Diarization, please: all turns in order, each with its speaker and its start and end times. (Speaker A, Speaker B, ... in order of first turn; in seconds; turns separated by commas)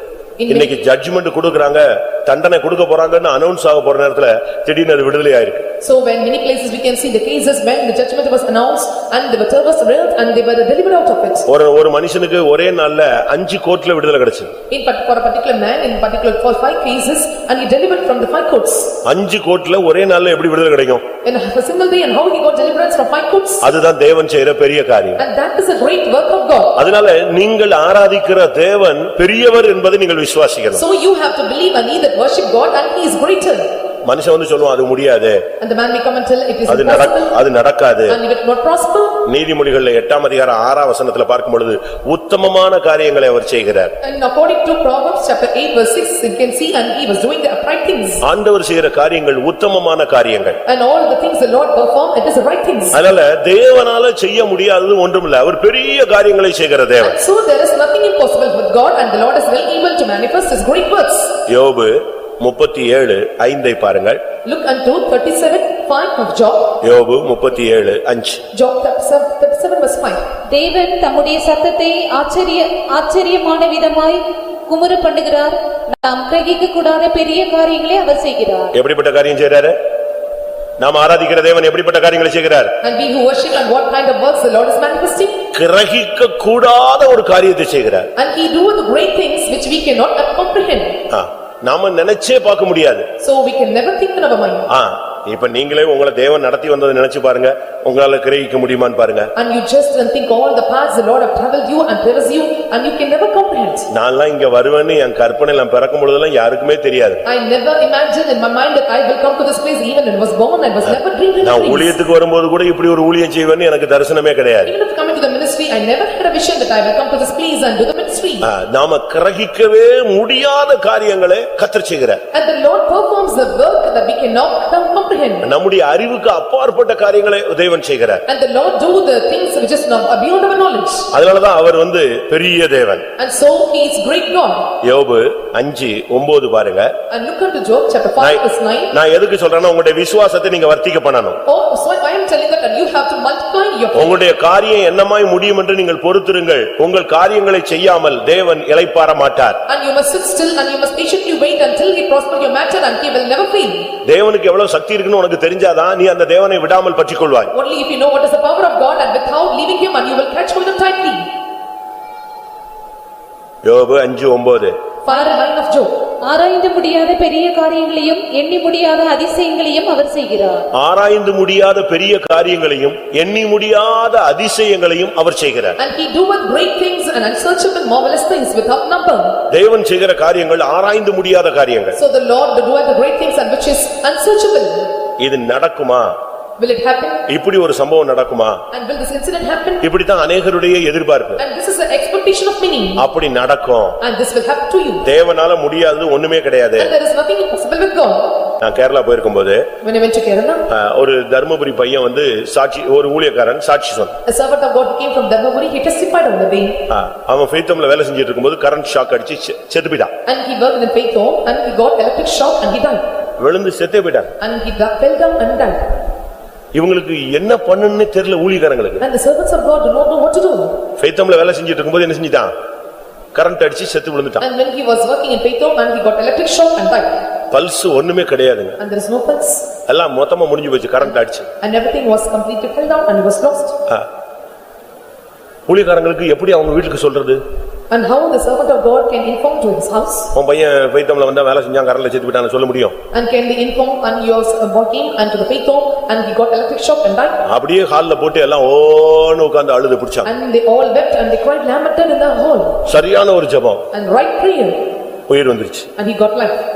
Speaker A: 0.4-0.7, Speaker B: 0.5-5.7, Speaker A: 5.8-11.4, Speaker B: 11.5-14.5, Speaker A: 14.7-19.0, Speaker B: 19.0-21.1, Speaker A: 21.2-23.7, Speaker B: 23.6-25.2, Speaker A: 25.2-26.8, Speaker B: 26.8-30.8, Speaker A: 30.7-33.7, Speaker B: 34.0-35.4, Speaker A: 35.6-37.4, Speaker B: 36.7-38.2, Speaker A: 38.1-39.2, Speaker B: 39.2-43.9, Speaker A: 44.0-48.2, Speaker B: 48.2-50.6, Speaker A: 50.6-53.0, Speaker B: 52.9-57.2, Speaker A: 57.0-61.4, Speaker B: 61.5-64.2, Speaker A: 64.4-66.8, Speaker B: 66.8-68.4, Speaker A: 68.5-70.2, Speaker C: 70.5-78.7, Speaker B: 78.7-79.8, Speaker B: 80.8-82.7, Speaker A: 82.8-85.5, Speaker B: 85.5-88.1, Speaker A: 88.2-91.0, Speaker B: 91.1-93.0, Speaker A: 93.2-94.7, Speaker B: 94.7-99.3, Speaker A: 99.3-103.9, Speaker B: 103.9-107.2, Speaker A: 107.2-111.9, Speaker B: 110.8-114.7, Speaker A: 114.7-118.5, Speaker B: 118.4-122.2, Speaker A: 122.3-125.5, Speaker B: 125.4-128.2, Speaker A: 128.3-131.1, Speaker B: 131.1-133.0, Speaker A: 133.2-134.7, Speaker B: 134.8-136.9, Speaker A: 137.1-138.9, Speaker B: 138.2-141.4, Speaker A: 141.4-144.2, Speaker B: 143.9-149.6, Speaker A: 149.7-153.9, Speaker B: 154.0-157.5, Speaker A: 157.5-161.2, Speaker B: 163.6-164.7, Speaker A: 165.0-166.0, Speaker C: 165.1-165.5, Speaker C: 166.2-170.7, Speaker B: 170.7-175.8, Speaker A: 175.8-179.4, Speaker B: 179.5-182.0, Speaker A: 181.9-184.9, Speaker B: 185.2-186.2, Speaker A: 186.6-187.2, Speaker B: 187.3-188.6, Speaker A: 188.7-189.8, Speaker B: 189.8-191.4, Speaker A: 191.4-193.1, Speaker B: 193.0-194.0, Speaker A: 194.0-195.1, Speaker B: 195.0-196.9, Speaker A: 196.8-198.4, Speaker B: 198.6-199.7, Speaker A: 199.8-200.7, Speaker B: 200.7-204.1, Speaker A: 204.2-206.8, Speaker B: 206.9-210.1, Speaker A: 210.2-213.0, Speaker B: 213.4-214.3, Speaker A: 214.4-215.9, Speaker B: 216.7-219.0, Speaker A: 219.0-220.8, Speaker B: 221.0-222.5, Speaker B: 223.3-224.4, Speaker A: 224.4-227.2, Speaker B: 227.5-228.8, Speaker A: 228.8-229.7, Speaker B: 229.9-231.5, Speaker A: 231.6-233.8, Speaker B: 235.7-237.4, Speaker A: 237.9-240.3, Speaker B: 240.3-242.9, Speaker A: 243.1-247.4, Speaker B: 247.4-250.3, Speaker A: 250.2-252.8, Speaker B: 252.8-253.8, Speaker A: 253.9-254.8, Speaker B: 255.3-255.9, Speaker A: 256.0-256.6